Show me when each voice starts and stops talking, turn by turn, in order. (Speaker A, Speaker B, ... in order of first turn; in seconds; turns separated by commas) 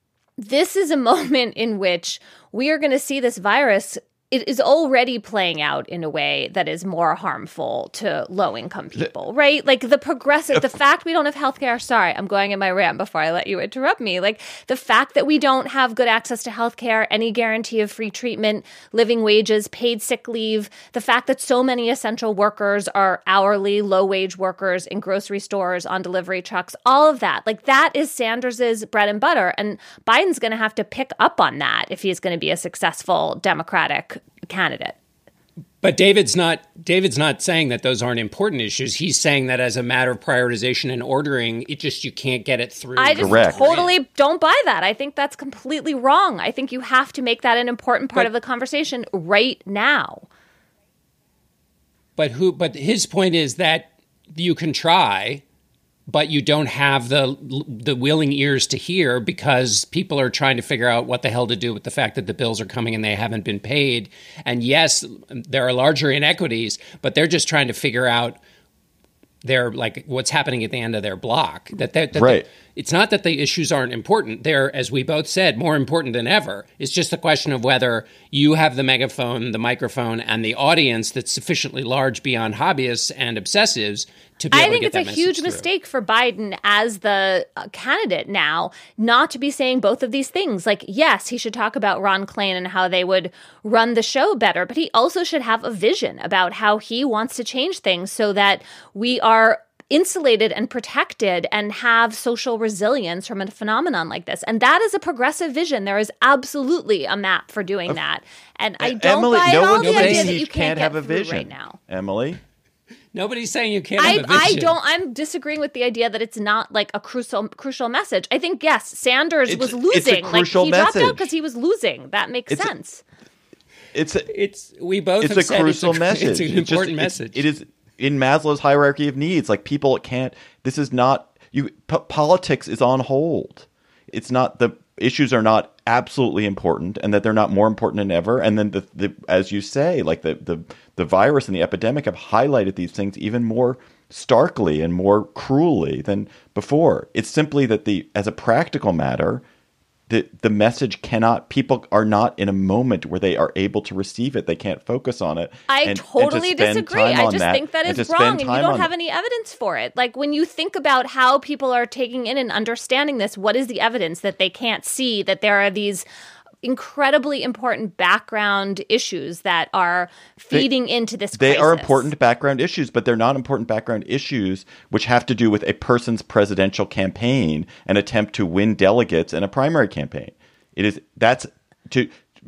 Speaker A: 0.4-35.0, Speaker B: 35.8-44.0, Speaker A: 43.0-50.2, Speaker C: 43.1-43.9, Speaker B: 52.2-55.4, Speaker B: 56.1-68.4, Speaker B: 69.4-85.7, Speaker C: 72.1-72.5, Speaker A: 84.5-111.8, Speaker C: 108.8-112.4, Speaker B: 109.8-110.4, Speaker B: 113.1-114.7, Speaker A: 114.0-123.0, Speaker C: 119.5-121.3, Speaker C: 123.9-124.3, Speaker B: 124.3-127.4, Speaker C: 125.2-149.4, Speaker C: 150.1-158.9, Speaker A: 155.7-166.1, Speaker A: 166.6-172.1, Speaker C: 171.3-182.1